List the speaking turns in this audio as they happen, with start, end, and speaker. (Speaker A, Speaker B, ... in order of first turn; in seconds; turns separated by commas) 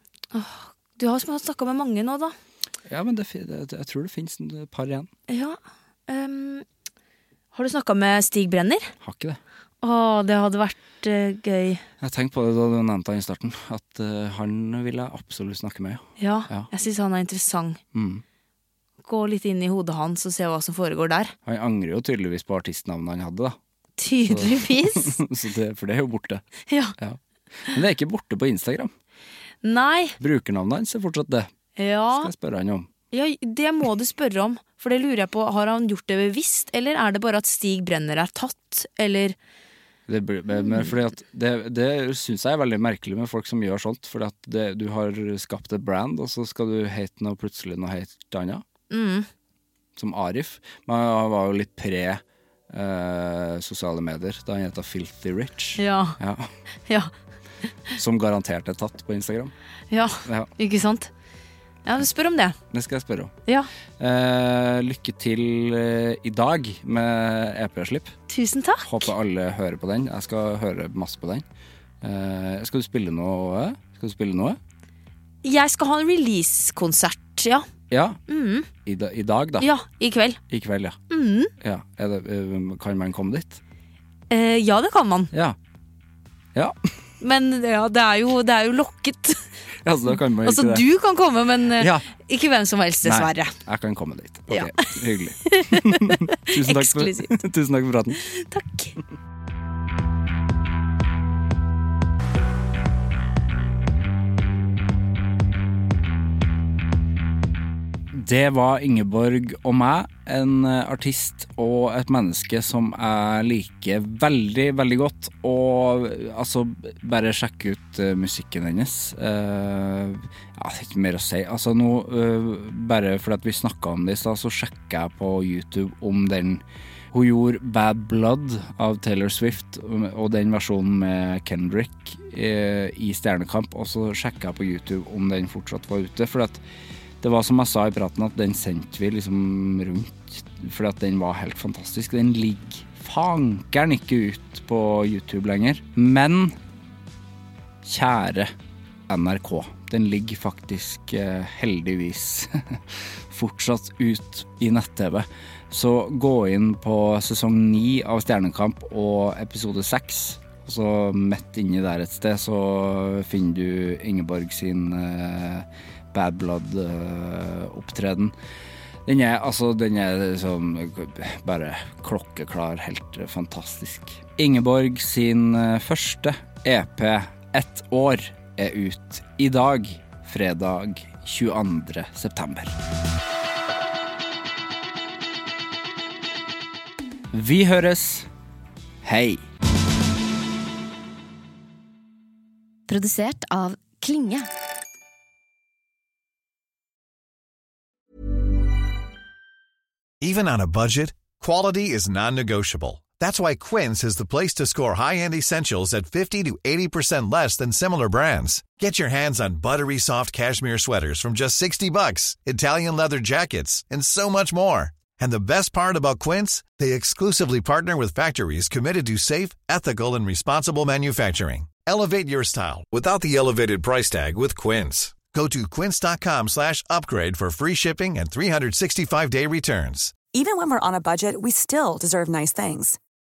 Speaker A: 0.3-2.3, Speaker B: 2.9-5.1, Speaker A: 5.3-6.6, Speaker A: 7.5-8.9, Speaker B: 9.0-9.4, Speaker A: 9.8-11.8, Speaker B: 12.0-16.7, Speaker A: 16.2-17.8, Speaker B: 17.9-18.2, Speaker A: 19.1-21.3, Speaker B: 21.4-23.6, Speaker A: 24.0-25.2, Speaker B: 24.3-26.4, Speaker A: 26.7-26.9, Speaker B: 27.0-28.9, Speaker A: 29.6-30.2, Speaker B: 30.2-31.5, Speaker A: 31.8-32.3, Speaker B: 32.1-32.9, Speaker A: 33.1-39.4, Speaker B: 40.1-48.6, Speaker A: 48.9-49.3, Speaker B: 50.0-56.5, Speaker A: 55.8-56.2, Speaker B: 57.9-59.5, Speaker A: 59.9-61.1, Speaker A: 61.8-62.6, Speaker B: 62.7-63.3, Speaker B: 64.0-68.1, Speaker A: 68.3-69.1, Speaker B: 68.8-71.4, Speaker B: 72.0-74.6, Speaker A: 75.4-77.7, Speaker B: 77.9-78.2, Speaker A: 78.3-78.7, Speaker B: 78.8-79.7, Speaker A: 79.6-80.4, Speaker B: 80.5-81.0, Speaker A: 81.1-81.5, Speaker B: 81.6-83.6, Speaker A: 84.3-85.3, Speaker B: 85.3-85.6, Speaker A: 87.2-89.5, Speaker B: 89.8-90.8, Speaker A: 90.1-93.5, Speaker B: 91.8-92.1, Speaker B: 93.0-98.2, Speaker A: 94.5-97.3, Speaker A: 98.2-99.0, Speaker B: 108.1-136.6, Speaker B: 137.2-146.6, Speaker B: 147.8-148.5, Speaker B: 149.1-168.3, Speaker B: 169.1-182.8, Speaker B: 187.3-188.3, Speaker B: 189.0-189.4, Speaker A: 192.9-194.5, Speaker C: 200.2-230.2, Speaker D: 230.3-233.0